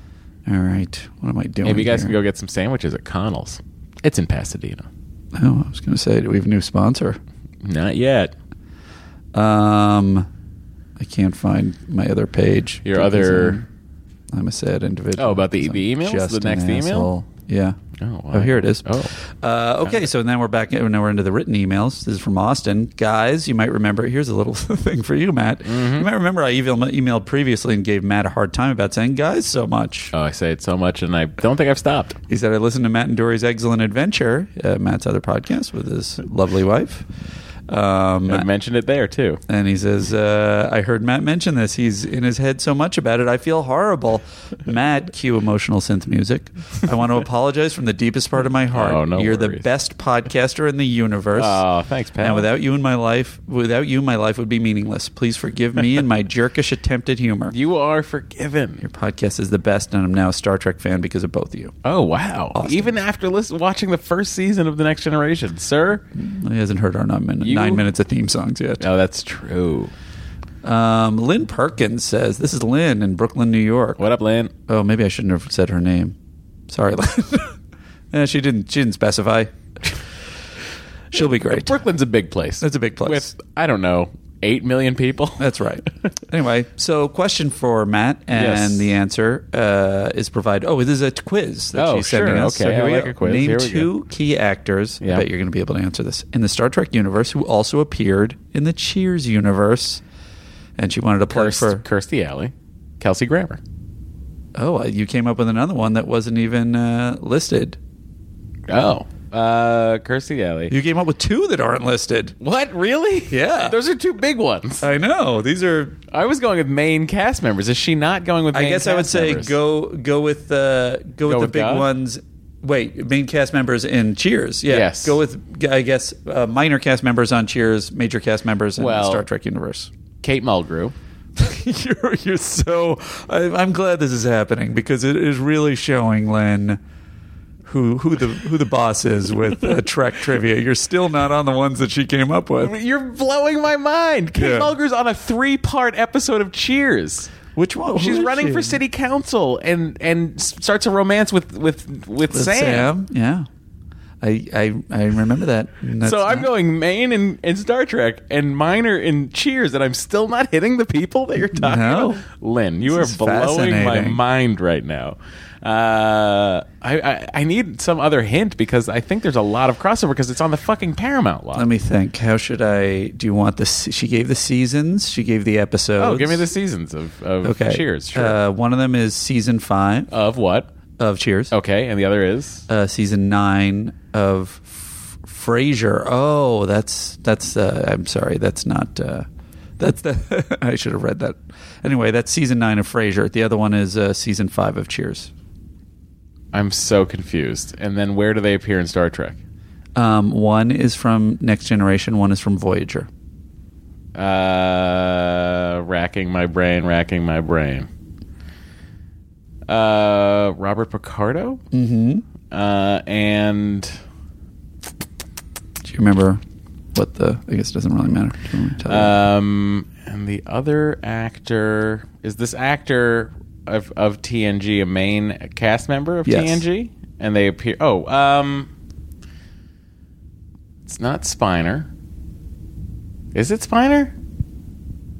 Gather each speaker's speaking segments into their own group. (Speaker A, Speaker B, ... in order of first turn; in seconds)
Speaker A: 0.5-2.2, 5.3-7.2, 9.3-10.3, 11.0-13.7, 14.3-17.8, 18.3-30.1, 32.3-37.1, 37.7-38.5, 39.5-51.6, 52.2-57.5, 58.8-61.7, 62.5-63.0, 66.1-68.8, 70.6-74.0, 74.7-76.2, 76.7-77.5, 78.1-80.0, 81.1-81.8, 82.6-83.3, 85.4-100.0, 100.8-101.8, 104.5-107.8, 110.7-112.3, 113.3-113.8, 114.8-116.0, 118.5-129.9, 131.4-136.8, 137.6-142.7, 144.3-144.7, 147.5-148.8, 152.3-153.5, 154.2-156.5, 161.5-162.2, 162.8-164.2, 171.5-176.5, 177.4-180.1, 181.0-181.5, 182.7-189.3, 189.8-195.3, 199.9-203.1, 211.7-212.2, 215.8-216.4, 216.9-219.1, 226.2-226.6
Speaker B: 1.6-4.9, 7.6-8.3, 12.8-13.6, 15.2-17.1, 18.0-19.1, 25.6-26.1, 30.1-32.2, 38.3-39.4, 48.7-49.7, 51.4-52.5, 57.5-58.8, 61.8-66.0, 67.4-67.8, 68.8-69.9, 74.0-74.5, 81.2-85.5, 88.3-88.9, 91.7-93.9, 101.3-103.6, 108.7-110.7, 112.4-114.9, 116.1-119.5, 121.3-121.9, 124.7-125.2, 128.8-129.2, 130.2-130.9, 142.6-147.3, 147.9-152.9, 156.0-171.7, 176.0-178.4, 180.1-180.7, 181.5-182.6, 196.5-199.4, 204.1-207.9, 209.7-211.6, 212.5-214.0, 218.9-228.7, 230.8-231.9, 233.3-234.1